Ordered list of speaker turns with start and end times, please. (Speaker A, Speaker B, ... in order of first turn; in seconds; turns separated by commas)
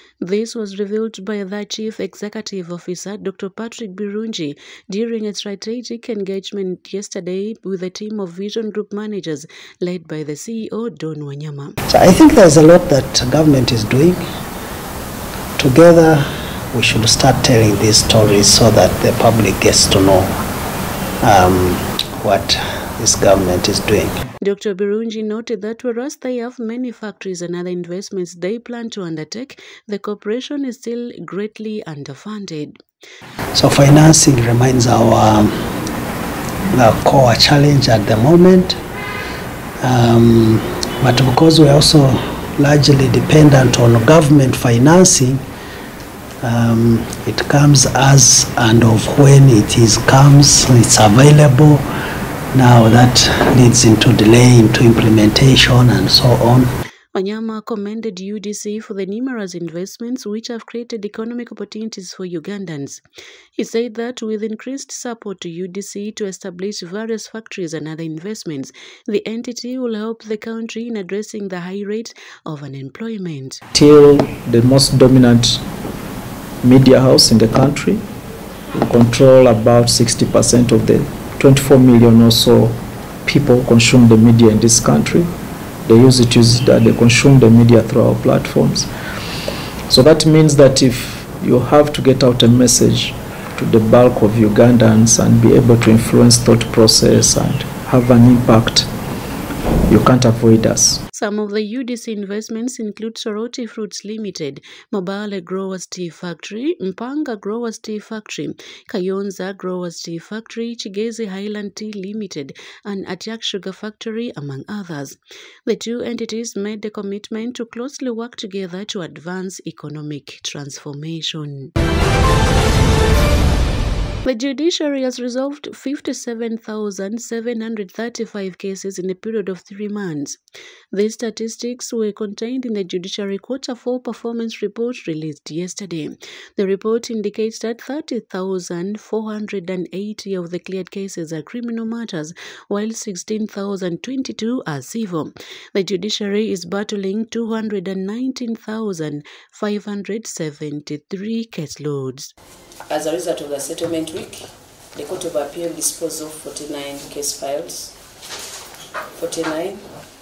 Speaker A: 0.2-11.8, Speaker B: 11.9-14.2, Speaker B: 15.6-20.3, Speaker B: 21.2-24.2, Speaker A: 24.4-32.8, Speaker B: 33.5-35.5, Speaker B: 36.7-38.8, Speaker B: 39.8-45.4, Speaker B: 46.4-51.8, Speaker B: 52.5-56.7, Speaker A: 57.1-63.0, Speaker A: 63.5-73.6, Speaker C: 73.7-75.6, Speaker C: 76.6-78.0, Speaker C: 78.8-85.3, Speaker C: 85.8-88.9, Speaker C: 89.9-98.9, Speaker C: 99.9-101.0, Speaker A: 101.1-121.7, Speaker A: 124.2-130.4, Speaker A: 130.9-152.3, Speaker D: 152.9-157.9, Speaker D: 159.2-159.9